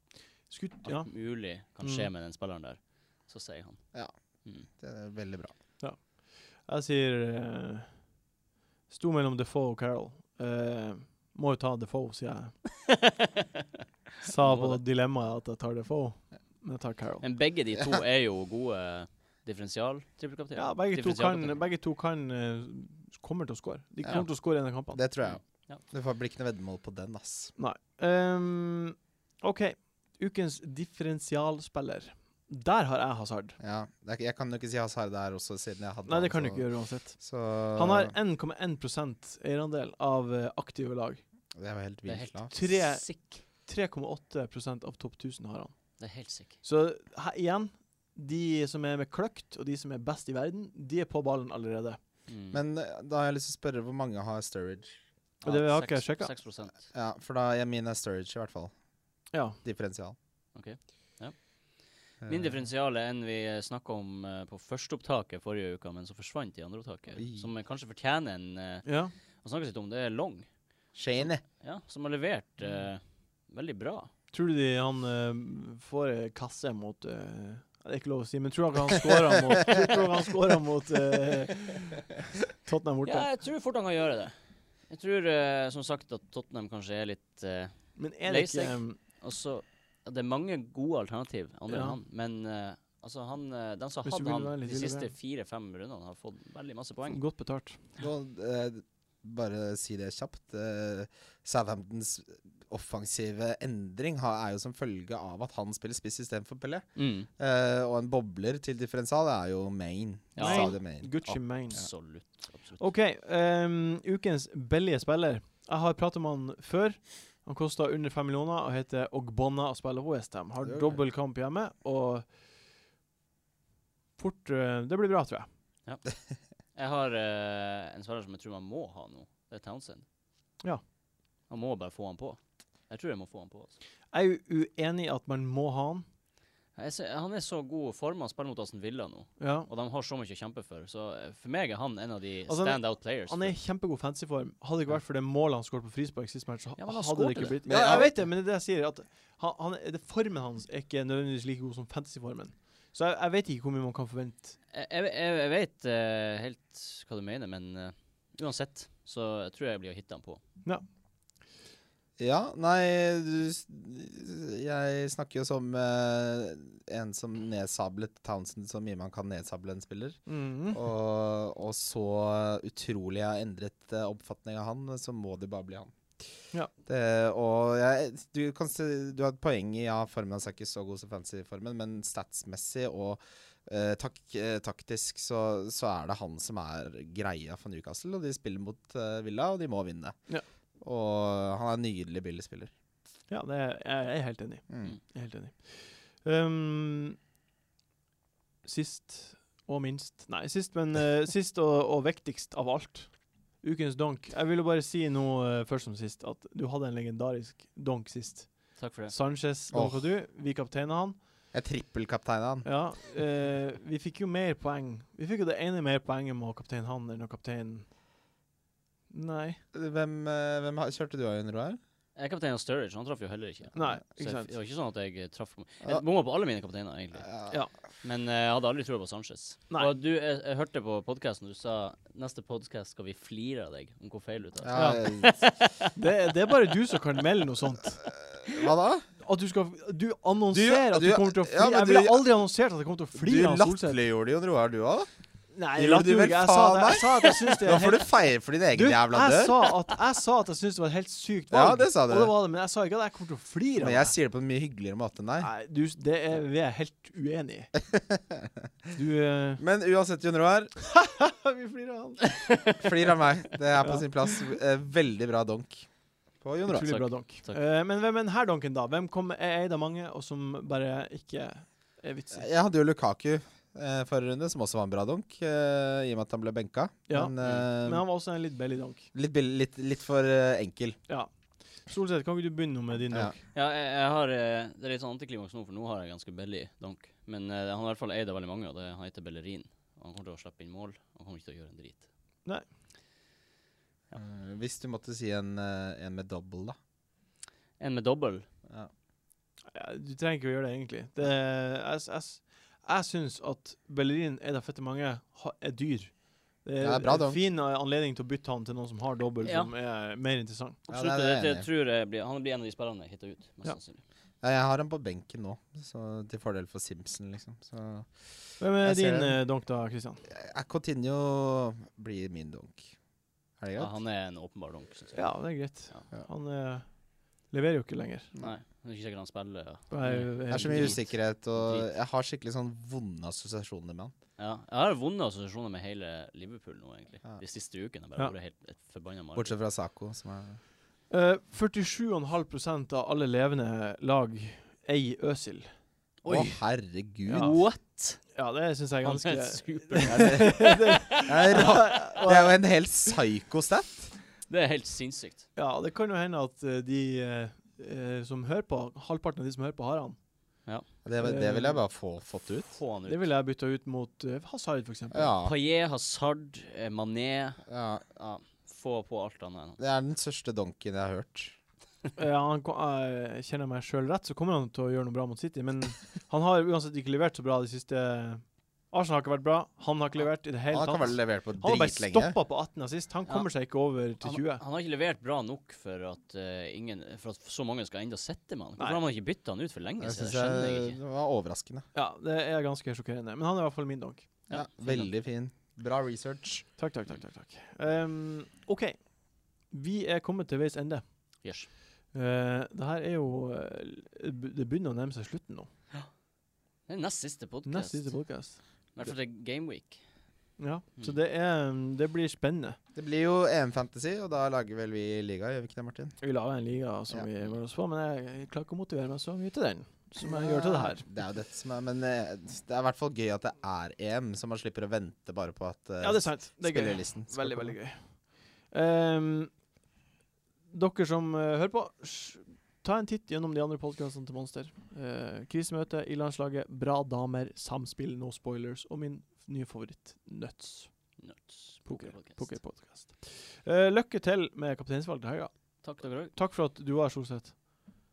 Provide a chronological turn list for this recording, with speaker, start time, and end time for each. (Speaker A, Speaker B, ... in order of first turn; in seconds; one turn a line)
Speaker A: 0.5-1.1
Speaker B: 0.8-3.8
Speaker A: 1.8-2.1
Speaker C: 4.7-5.5
Speaker A: 5.8-8.1
Speaker A: 8.9-12.6
Speaker B: 12.9-13.3
Speaker A: 14.2-17.2
Speaker B: 14.4-14.8
Speaker B: 17.2-21.6
Speaker A: 20.6-25.0
Speaker C: 24.9-27.5
Speaker B: 25.2-25.8
Speaker A: 27.6-33.6
Speaker C: 33.6-36.6
Speaker A: 36.1-37.2
Speaker C: 37.2-38.1
Speaker A: 37.7-41.2
Speaker C: 41.5-42.5
Speaker B: 42.1-43.4
Speaker A: 42.5-45.7
Speaker B: 46.0-46.5
Speaker A: 46.6-52.0
Speaker B: 52.3-52.6
Speaker C: 52.5-54.9
Speaker B: 55.4-56.8
Speaker A: 55.4-56.3
Speaker C: 56.9-58.7
Speaker A: 59.3-59.6
Speaker C: 59.6-60.1
Speaker B: 60.5-61.4
Speaker C: 62.2-62.6
Speaker B: 62.2-70.5
Speaker C: 67.2-67.5
Speaker A: 68.8-69.1
Speaker C: 70.9-71.4
Speaker B: 71.2-74.1
Speaker A: 74.3-82.0
Speaker A: 82.6-83.3
Speaker B: 83.0-84.3
Speaker B: 84.9-97.2
Speaker A: 88.0-89.0
Speaker A: 91.7-92.0
Speaker A: 94.0-95.1
Speaker A: 97.1-97.8
Speaker C: 98.0-111.1
Speaker B: 107.0-107.3
Speaker B: 110.3-112.9
Speaker A: 110.4-111.8
Speaker A: 112.8-122.3
Speaker C: 120.6-121.0
Speaker A: 124.2-125.5
Speaker B: 126.7-130.0
Speaker B: 131.5-133.7
Speaker A: 134.1-136.1
Speaker B: 136.8-143.5
Speaker A: 139.4-139.7
Speaker A: 142.5-154.5
Speaker B: 146.8-148.1
Speaker C: 147.7-148.1
Speaker B: 154.7-160.4
Speaker C: 162.2-175.9
Speaker A: 170.3-170.8
Speaker C: 176.8-190.2
Speaker C: 190.8-192.7
Speaker A: 193.3-197.2
Speaker C: 194.7-195.0
Speaker A: 198.6-211.2
Speaker B: 208.8-209.1
Speaker C: 209.7-210.0
Speaker C: 211.5-212.7
Speaker A: 212.6-217.9
Speaker A: 219.1-219.6
Speaker C: 219.7-221.8
Speaker B: 222.2-227.3
Speaker A: 223.8-224.5
Speaker C: 227.2-227.6
Speaker B: 228.0-235.9
Speaker C: 234.6-235.4
Speaker A: 234.7-235.0
Speaker A: 235.9-238.6
Speaker C: 238.1-239.1
Speaker A: 239.2-244.0
Speaker C: 240.5-242.2
Speaker C: 243.1-245.1
Speaker A: 245.5-248.1
Speaker C: 245.8-249.7
Speaker A: 248.7-254.1
Speaker C: 251.5-252.3
Speaker C: 253.8-255.5
Speaker A: 255.4-257.7
Speaker C: 257.9-258.5
Speaker A: 258.9-259.6
Speaker C: 259.6-260.7
Speaker A: 260.9-262.4
Speaker C: 262.8-265.9
Speaker A: 263.8-264.1
Speaker C: 266.4-266.9
Speaker A: 266.6-272.5
Speaker B: 266.8-267.6
Speaker C: 272.3-278.0
Speaker A: 277.1-279.1
Speaker B: 277.4-277.7
Speaker C: 279.1-281.0
Speaker A: 281.9-283.4
Speaker B: 283.5-292.0
Speaker C: 294.1-296.8
Speaker B: 297.8-298.4
Speaker A: 299.7-310.8
Speaker C: 306.8-307.4
Speaker B: 309.4-309.7
Speaker C: 310.9-311.7
Speaker B: 310.9-314.0
Speaker C: 314.4-319.4
Speaker A: 318.6-320.2
Speaker C: 320.3-322.9
Speaker C: 323.6-323.9
Speaker B: 323.7-326.0
Speaker A: 325.1-326.9
Speaker A: 327.5-328.3
Speaker B: 328.4-331.9
Speaker A: 329.9-331.0
Speaker C: 330.5-334.1
Speaker B: 334.4-339.6
Speaker C: 339.3-340.6
Speaker A: 341.1-345.7
Speaker B: 346.2-346.6
Speaker C: 346.2-347.6
Speaker A: 347.3-347.6
Speaker B: 347.3-348.2
Speaker A: 348.3-352.6
Speaker B: 349.0-351.8
Speaker C: 350.1-350.5
Speaker C: 351.2-354.1
Speaker B: 354.5-355.4
Speaker A: 355.6-360.2
Speaker C: 361.0-362.8
Speaker A: 361.2-361.8
Speaker B: 362.7-363.3
Speaker A: 363.1-365.3
Speaker C: 365.1-365.5
Speaker B: 365.4-369.8
Speaker C: 367.7-368.0
Speaker C: 369.8-371.5
Speaker A: 372.1-384.6
Speaker C: 380.7-382.4
Speaker B: 384.2-391.0
Speaker C: 390.0-391.9
Speaker A: 391.9-394.3
Speaker B: 394.5-395.1
Speaker C: 394.5-396.7
Speaker A: 396.8-399.0
Speaker A: 399.7-401.0
Speaker B: 401.4-401.7
Speaker A: 402.1-405.7
Speaker B: 406.9-408.2
Speaker A: 407.6-409.1
Speaker B: 408.9-410.0
Speaker A: 410.6-412.8
Speaker C: 412.9-416.1
Speaker A: 416.2-421.1
Speaker C: 420.2-427.8
Speaker A: 426.0-429.5
Speaker A: 430.7-440.9
Speaker B: 441.2-442.6
Speaker A: 441.9-445.5
Speaker B: 445.8-446.4
Speaker A: 446.3-447.6